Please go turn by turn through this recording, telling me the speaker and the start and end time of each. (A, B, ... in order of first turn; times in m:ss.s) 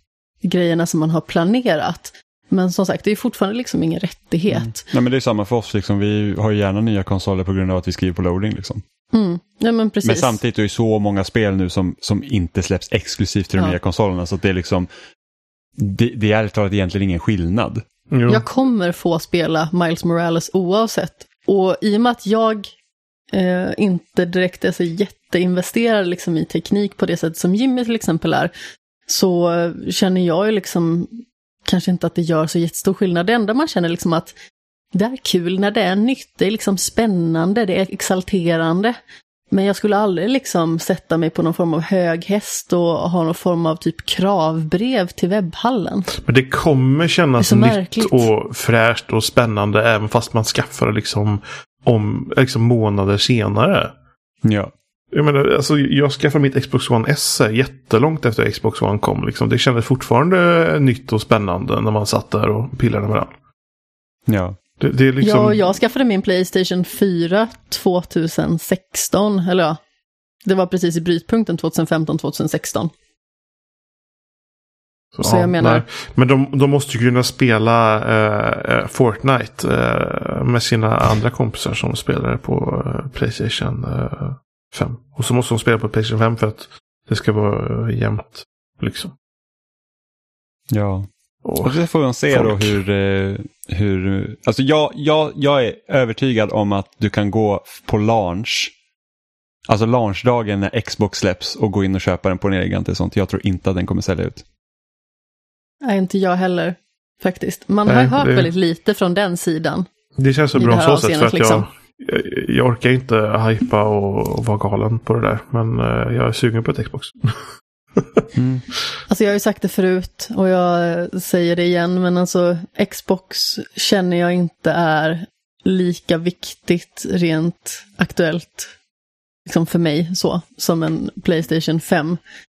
0:00.4-0:04.8 A
0:04.5-0:08.8 B
0:09.1-0:10.4 A
0:10.0-0:14.9 B
0:15.8-0:17.8 B
0:18.1-0:18.4 C
0:18.3-0:22.7 A
0:23.3-0:28.5 A
0:29.1-0:31.1 A
0:31.6-0:34.3 A
0:34.9-0:39.0 A
0:39.5-0:46.1 A
0:46.2-0:53.9 C
0:47.4-0:48.3 A
0:54.4-0:54.7 B
0:55.1-1:03.3 C
1:04.3-1:04.6 B
1:04.8-1:05.7 C
1:05.2-1:09.8 A
1:10.4-1:12.9 A
1:15.1-1:29.1 C
1:15.2-1:15.8 A
1:30.7-1:31.1 B
1:31.4-1:31.8 C
1:31.6-1:38.7 B
1:32.3-1:32.8 C
1:39.7-1:44.4 B
1:45.8-1:49.8 A
1:47.8-1:48.5 C
1:50.2-1:57.4 C
1:50.6-1:51.6 A
1:58.0-1:58.2 C
1:58.3-1:58.6 B
1:59.1-2:08.7 A
2:09.4-2:12.2 A